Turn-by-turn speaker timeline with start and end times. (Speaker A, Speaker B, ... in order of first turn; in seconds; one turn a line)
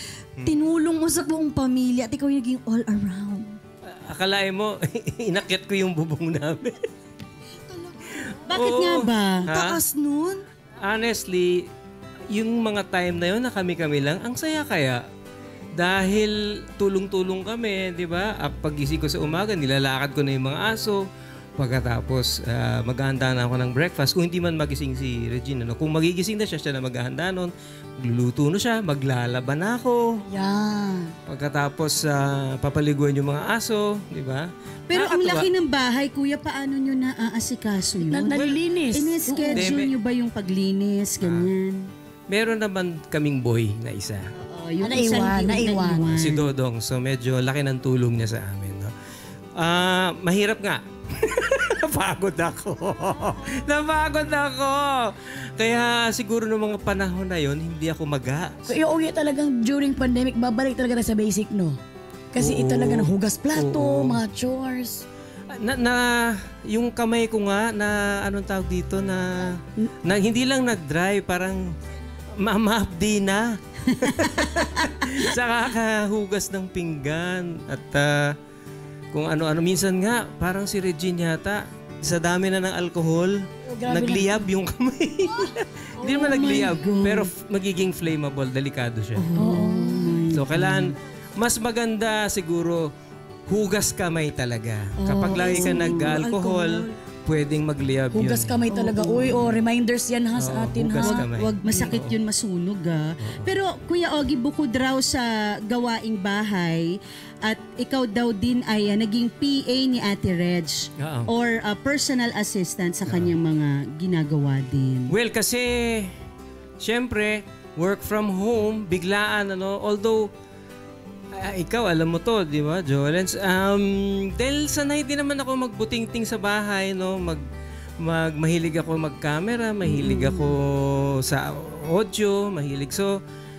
Speaker A: 0.4-3.5
Speaker B: 4.0-6.8
Speaker A: 7.7-8.2
Speaker B: 8.2-9.8
Speaker C: 8.5-9.5
Speaker A: 9.5-10.4
Speaker B: 10.8-11.6
Speaker B: 12.3-15.0
Speaker B: 15.8-21.0
Speaker B: 21.6-30.2
Speaker D: 30.3-31.1
Speaker B: 31.3-35.5
Speaker C: 34.9-41.8
Speaker D: 38.0-39.7
Speaker B: 38.3-38.6
Speaker B: 39.6-39.9
Speaker B: 41.2-41.5
Speaker B: 42.3-44.3
Speaker C: 44.4-46.5
Speaker D: 44.8-46.1
Speaker B: 46.1-48.9
Speaker B: 49.6-58.8
Speaker D: 58.7-61.8
Speaker D: 62.3-65.0
Speaker B: 62.4-64.2
Speaker B: 65.5-71.6
Speaker B: 72.4-78.3
Speaker C: 74.6-75.0
Speaker B: 79.1-89.2
Speaker D: 83.7-84.3
Speaker C: 86.0-87.3
Speaker C: 89.2-90.9
Speaker D: 89.4-90.3
Speaker B: 90.3-92.8
Speaker B: 93.5-98.6
Speaker C: 95.0-96.2
Speaker A: 95.3-96.9
Speaker D: 98.1-101.2
Speaker C: 98.7-99.5
Speaker B: 100.4-102.2
Speaker C: 101.0-106.9
Speaker B: 103.2-103.5
Speaker C: 107.5-115.1
Speaker B: 111.0-111.3
Speaker B: 113.1-113.3
Speaker B: 115.1-116.1
Speaker B: 116.8-120.3
Speaker B: 121.4-127.4
Speaker B: 128.0-133.1
Speaker C: 130.0-130.4